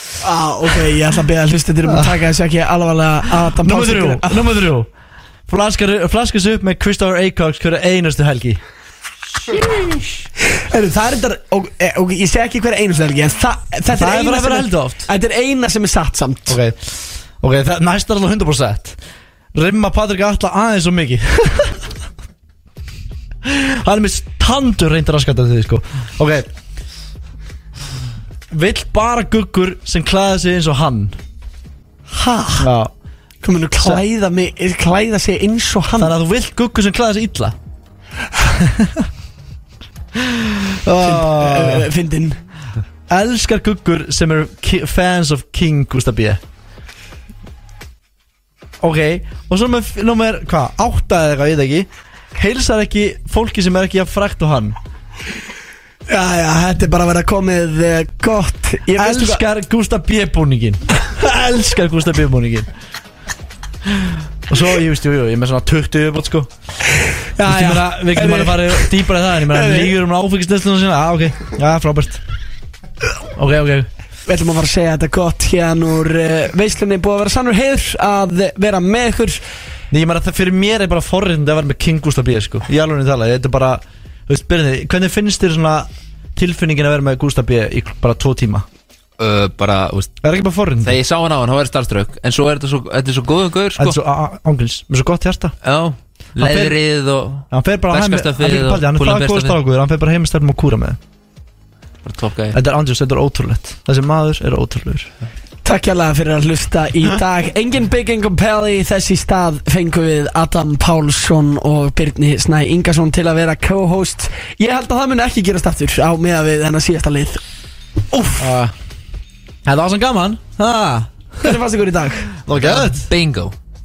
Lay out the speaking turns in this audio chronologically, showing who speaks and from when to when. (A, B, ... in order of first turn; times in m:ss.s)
0:00.2-0:04.5 A
0:01.9-0:02.2 B
0:03.4-0:04.9 B
0:05.5-0:08.6 B
0:09.8-0:16.6 A
0:13.9-0:15.1 B
0:16.5-0:19.0 B
0:19.5-0:21.9 B
0:23.4-0:26.5 B
0:28.5-0:31.2 B
0:32.1-0:32.7 A
0:32.6-0:32.9 B
0:33.4-0:36.1 A
0:36.0-0:37.6 B
0:38.4-0:39.1 B
0:40.2-0:41.9 B
0:41.0-0:42.4 A
0:43.1-0:46.4 B
0:48.8-0:54.8 B
0:56.1-0:59.4 A
0:59.0-1:02.7 B
1:03.8-1:06.5 B
1:07.4-1:09.9 A
1:07.4-1:12.2 B
1:13.3-1:13.9 B
1:14.3-1:19.4 A
1:19.9-1:28.6 B
1:29.2-1:30.2 C
1:30.2-1:31.0 B
1:30.8-1:34.0 C
1:33.8-1:35.6 B
1:35.6-1:39.6 C
1:36.4-1:36.8 B
1:37.5-1:41.0 B
1:42.0-1:42.6 C
1:42.5-1:45.1 B
1:45.6-1:57.4 A
1:58.2-1:58.7 B
1:59.6-2:01.6 B
2:01.4-2:02.3 A
2:02.4-2:03.1 B
2:02.5-2:03.5 C